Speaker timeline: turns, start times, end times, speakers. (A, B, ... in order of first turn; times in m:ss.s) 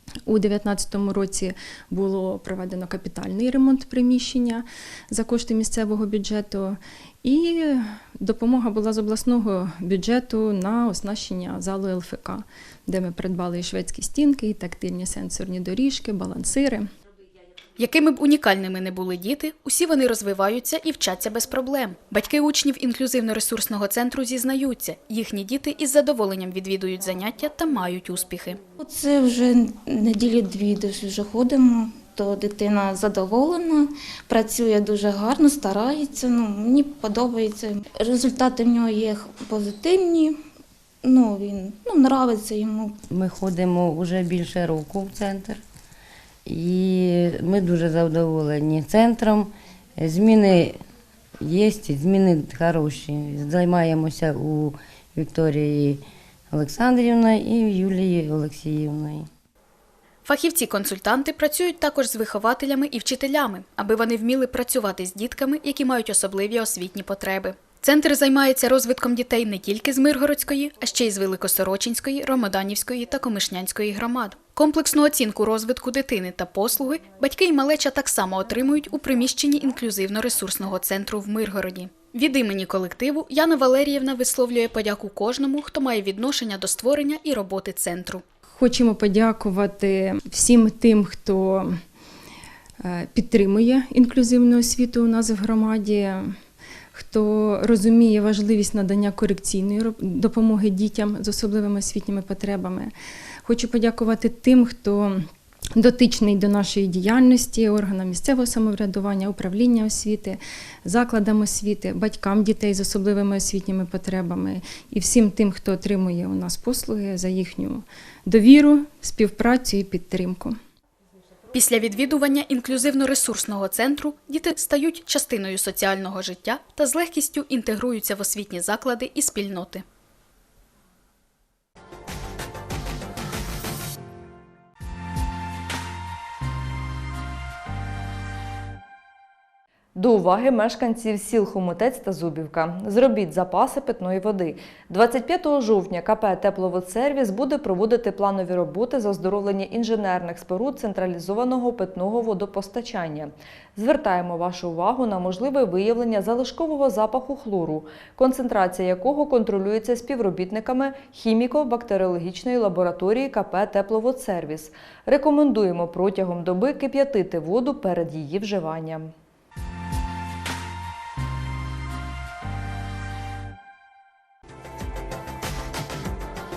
0:00.2-0:16.9 A
0:17.8-0:28.6 B
0:28.8-0:40.4 C
0:41.0-0:43.0 C
0:43.1-0:45.6 D
0:46.5-0:50.8 D
0:51.4-0:59.3 D
1:00.2-1:28.2 B
1:28.6-1:31.8 A
1:32.8-1:36.4 A
1:36.9-1:42.9 A
1:43.4-2:00.6 A
2:01.5-2:09.8 B
2:20.0-2:49.1 E